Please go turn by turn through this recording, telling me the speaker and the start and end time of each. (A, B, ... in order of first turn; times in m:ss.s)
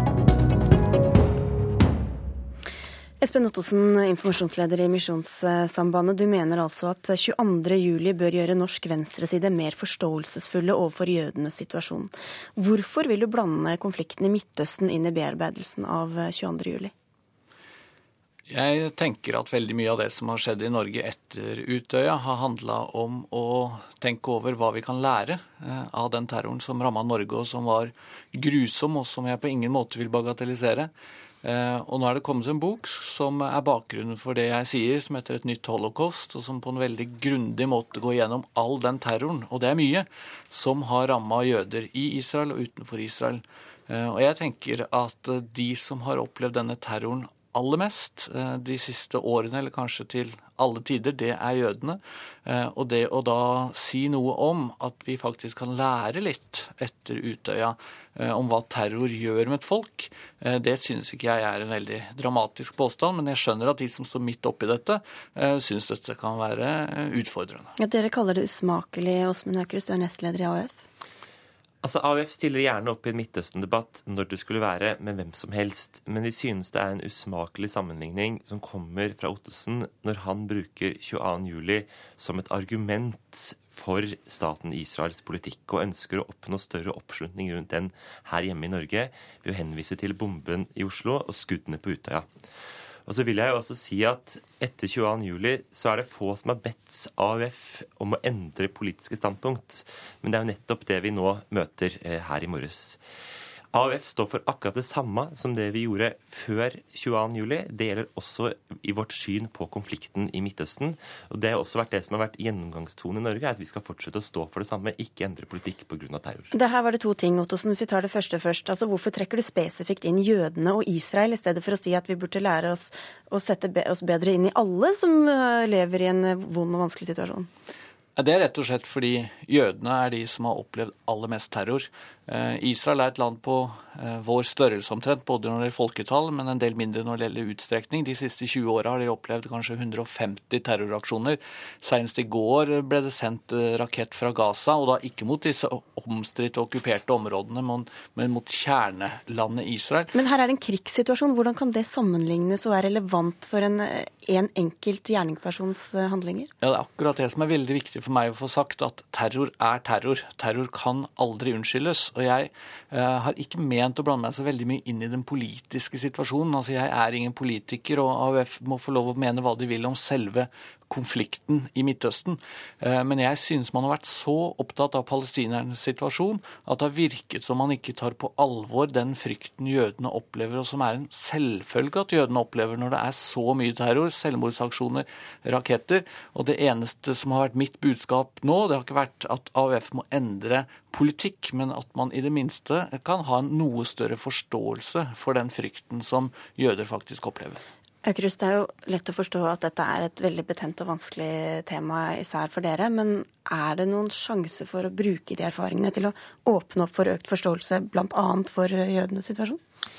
0:03.2-0:16.9 A
0:18.5-0:30.9 B
0:31.4-1:07.7 B
1:07.8-1:10.8 A
1:11.8-1:32.3 C
1:33.1-1:43.0 C
1:43.7-1:56.5 C
1:56.5-2:07.5 A
2:08.2-2:30.1 B
2:30.2-2:36.5 A
2:36.6-3:17.6 B
3:18.0-3:29.6 A